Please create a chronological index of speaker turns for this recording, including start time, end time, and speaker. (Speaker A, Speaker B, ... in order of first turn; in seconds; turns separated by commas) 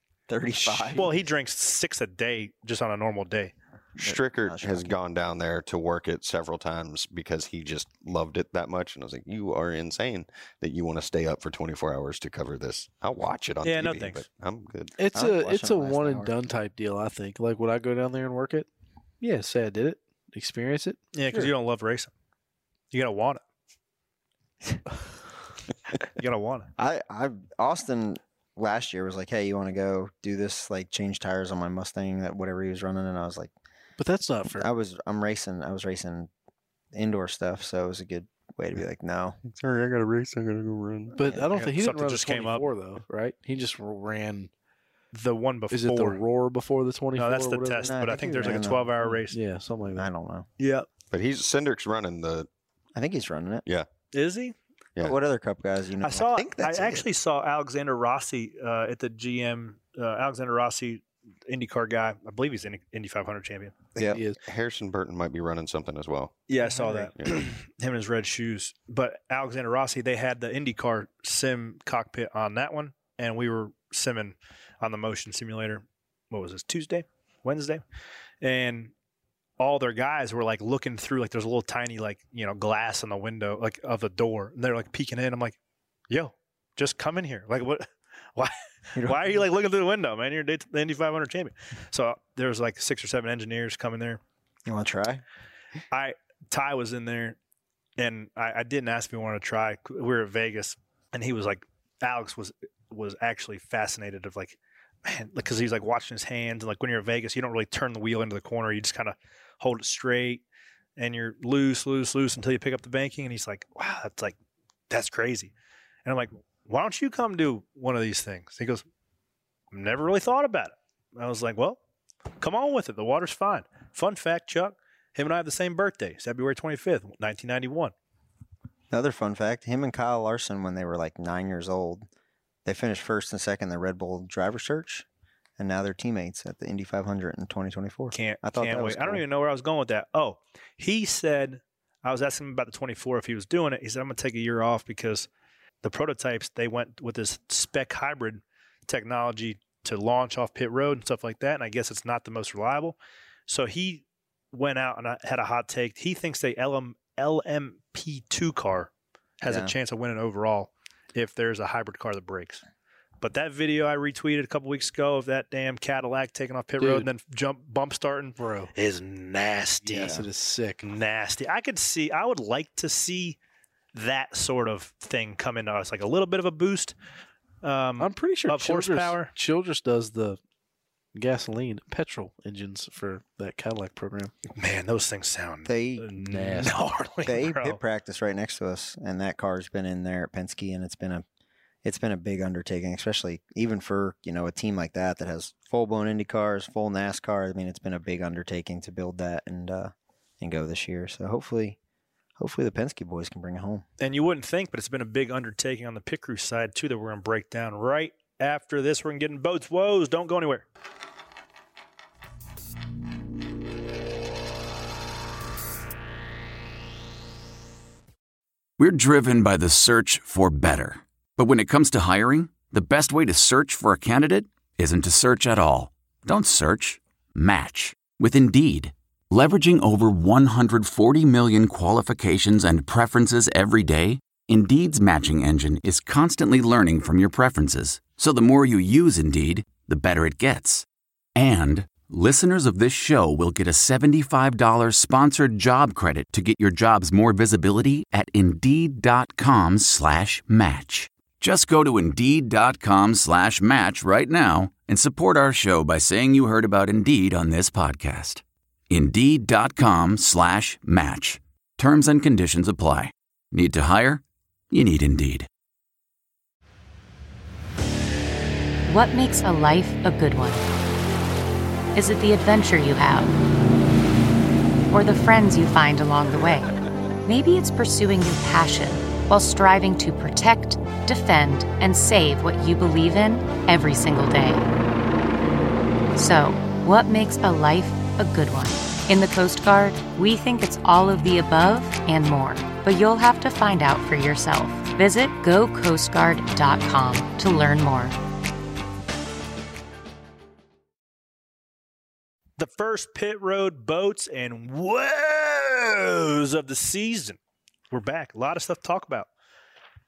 Speaker A: 0.3-1.1, Speaker B: 0.9-3.5, Speaker C: 4.0-15.0, Speaker A: 4.0-5.0, Speaker B: 13.6-14.2, Speaker D: 15.0-18.7, Speaker A: 15.1-16.3, Speaker D: 19.2-21.5, Speaker B: 21.1-22.1, Speaker B: 22.9-23.4, Speaker B: 26.2-26.7, Speaker A: 26.8-33.5, Speaker D: 34.0-34.7, Speaker A: 34.6-36.3, Speaker A: 36.9-39.4, Speaker C: 39.4-41.2, Speaker D: 41.1-44.5, Speaker B: 41.5-42.7, Speaker B: 45.1-46.2, Speaker D: 45.7-47.9, Speaker B: 47.1-49.4, Speaker A: 47.8-48.9, Speaker D: 48.5-50.1, Speaker A: 49.9-50.5, Speaker B: 50.6-50.9, Speaker C: 51.1-52.5, Speaker A: 53.0-53.6, Speaker B: 54.1-54.5, Speaker A: 55.0-56.9, Speaker B: 56.0-63.8, Speaker D: 64.1-64.4, Speaker C: 64.4-66.5, Speaker B: 66.5-77.8, Speaker C: 67.2-67.5, Speaker B: 78.4-78.9, Speaker B: 79.6-85.6, Speaker B: 86.1-87.9, Speaker B: 88.4-94.2, Speaker A: 89.0-89.4, Speaker A: 94.7-95.2, Speaker B: 95.9-97.4, Speaker B: 98.0-110.4, Speaker B: 111.0-114.3, Speaker B: 114.9-115.5, Speaker B: 116.0-118.8, Speaker B: 119.7-121.8, Speaker B: 122.4-127.9, Speaker A: 128.9-132.1, Speaker A: 132.7-135.1, Speaker A: 135.6-139.2, Speaker B: 138.1-145.3, Speaker B: 145.8-153.0, Speaker B: 153.5-158.9, Speaker B: 159.4-162.6, Speaker A: 159.4-159.8, Speaker B: 163.2-170.2, Speaker D: 166.8-167.1, Speaker D: 168.4-168.7, Speaker D: 169.8-170.8, Speaker B: 170.8-173.4, Speaker B: 173.9-176.9, Speaker B: 177.6-179.3, Speaker D: 178.0-180.4, Speaker D: 181.1-184.3, Speaker B: 184.6-187.8, Speaker A: 185.7-186.1, Speaker D: 186.2-186.8, Speaker A: 187.2-191.2, Speaker A: 191.8-201.8, Speaker A: 202.4-203.9, Speaker B: 204.0-210.7, Speaker E: 218.8-265.5, Speaker F: 268.9-270.6, Speaker F: 271.9-273.3, Speaker F: 274.9-276.7, Speaker F: 277.2-284.7, Speaker F: 286.2-298.2, Speaker B: 302.6-307.4, Speaker B: 307.9-309.3